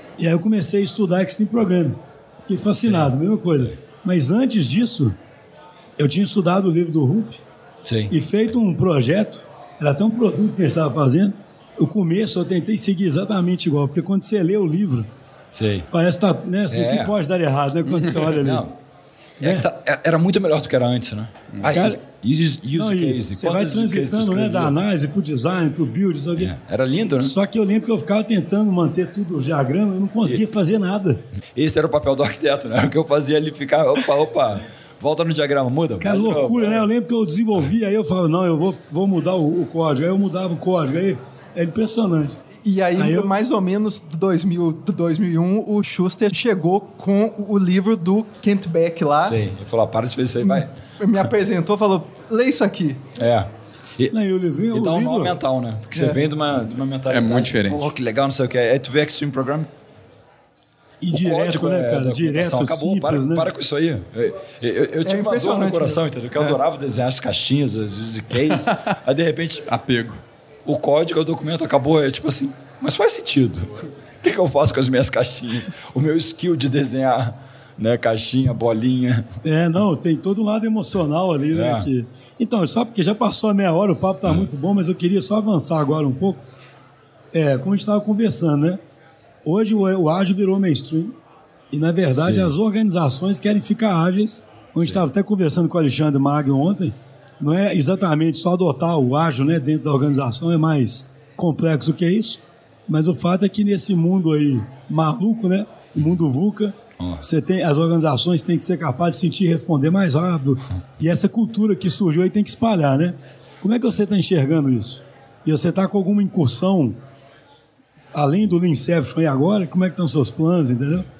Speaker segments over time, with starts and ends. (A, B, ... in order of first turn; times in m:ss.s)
0:00.2-0:05.2 A
0:02.8-0:03.8 B
0:06.0-0:07.4 A
0:07.8-0:08.1 B
0:08.1-0:15.1 A
0:15.5-0:15.9 B
0:15.9-0:18.6 A
0:16.7-0:17.2 B
0:18.2-0:18.8 B
0:19.4-0:19.6 A
0:19.4-0:24.8 B
0:21.6-0:22.0 A
0:22.7-0:26.5 A
0:26.4-0:27.3 B
0:27.1-0:31.2 A
0:31.5-0:36.9 B
0:36.0-0:42.4 A
0:42.6-0:49.4 C
0:43.0-0:43.3 A
0:49.2-0:50.7 B
0:50.4-0:53.0 C
0:53.1-0:54.1 B
0:54.1-0:55.4 A
0:54.7-0:59.7 B
0:55.9-0:56.2 C
0:57.1-0:57.8 D
1:01.0-1:03.5 A
1:01.1-1:09.7 B
1:05.0-1:06.0 C
1:08.4-1:09.0 D
1:09.7-1:10.2 D
1:10.6-1:19.2 B
1:19.4-1:26.4 A
1:21.5-1:21.9 B
1:24.2-1:24.5 B
1:27.3-1:28.8 A
1:29.4-1:31.2 A
1:31.7-1:57.0 A
1:32.1-1:32.5 B
1:58.1-2:01.1 A